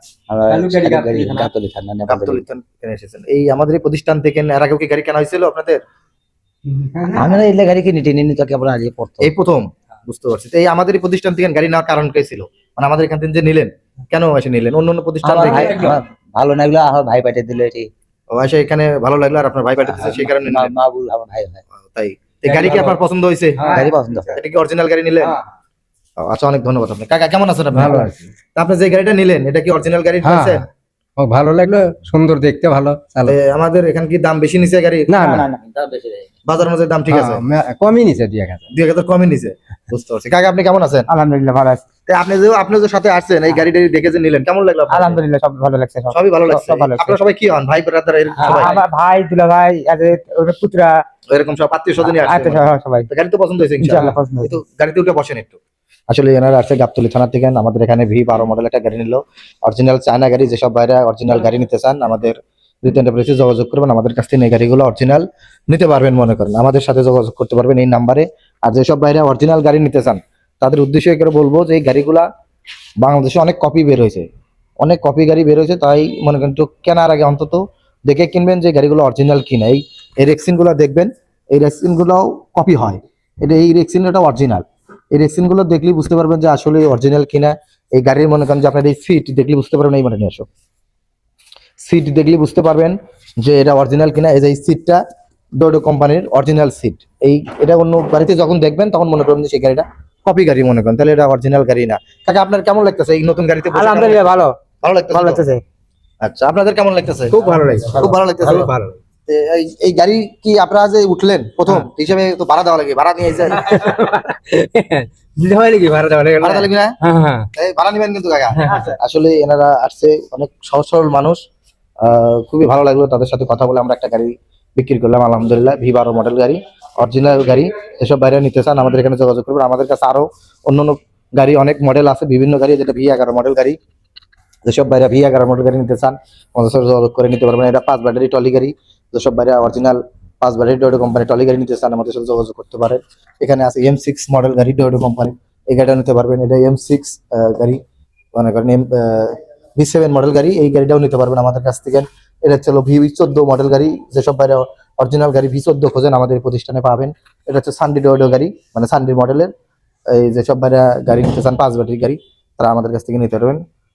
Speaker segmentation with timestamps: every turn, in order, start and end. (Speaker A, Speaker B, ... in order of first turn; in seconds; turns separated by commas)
Speaker A: 0.3-2.5, Speaker B: 0.5-1.5, Speaker C: 2.1-5.8, Speaker B: 6.7-7.3, Speaker A: 7.1-9.3, Speaker C: 9.2-15.9, Speaker A: 15.2-17.9, Speaker B: 15.5-16.0, Speaker C: 18.3-20.7, Speaker A: 19.9-21.6, Speaker C: 21.9-25.4, Speaker B: 22.5-23.0, Speaker B: 23.6-23.9, Speaker A: 23.6-24.4, Speaker C: 26.2-30.6, Speaker B: 27.7-28.2, Speaker B: 30.2-30.6, Speaker B: 31.2-33.4, Speaker C: 33.3-35.2, Speaker B: 35.1-35.5, Speaker A: 35.2-36.3, Speaker C: 36.5-37.4, Speaker B: 37.1-38.7, Speaker C: 38.7-41.1, Speaker D: 41.1-41.8, Speaker C: 42.1-45.2, Speaker D: 44.9-47.2, Speaker C: 46.1-48.8, Speaker B: 48.4-48.8, Speaker D: 48.4-51.0, Speaker C: 51.3-55.6, Speaker D: 52.1-53.1, Speaker D: 53.8-54.5, Speaker C: 56.1-72.3, Speaker C: 73.0-74.3, Speaker C: 74.8-90.5, Speaker C: 91.8-95.0, Speaker C: 95.6-104.3, Speaker D: 103.7-104.5, Speaker C: 104.8-105.4, Speaker D: 105.1-105.6, Speaker C: 106.2-108.7, Speaker B: 107.3-109.0, Speaker C: 109.3-113.9, Speaker B: 113.5-117.5, Speaker C: 116.4-117.0, Speaker C: 117.5-121.4, Speaker B: 118.6-118.9, Speaker C: 122.0-133.8, Speaker C: 134.7-147.8, Speaker C: 148.3-159.5, Speaker C: 160.1-163.6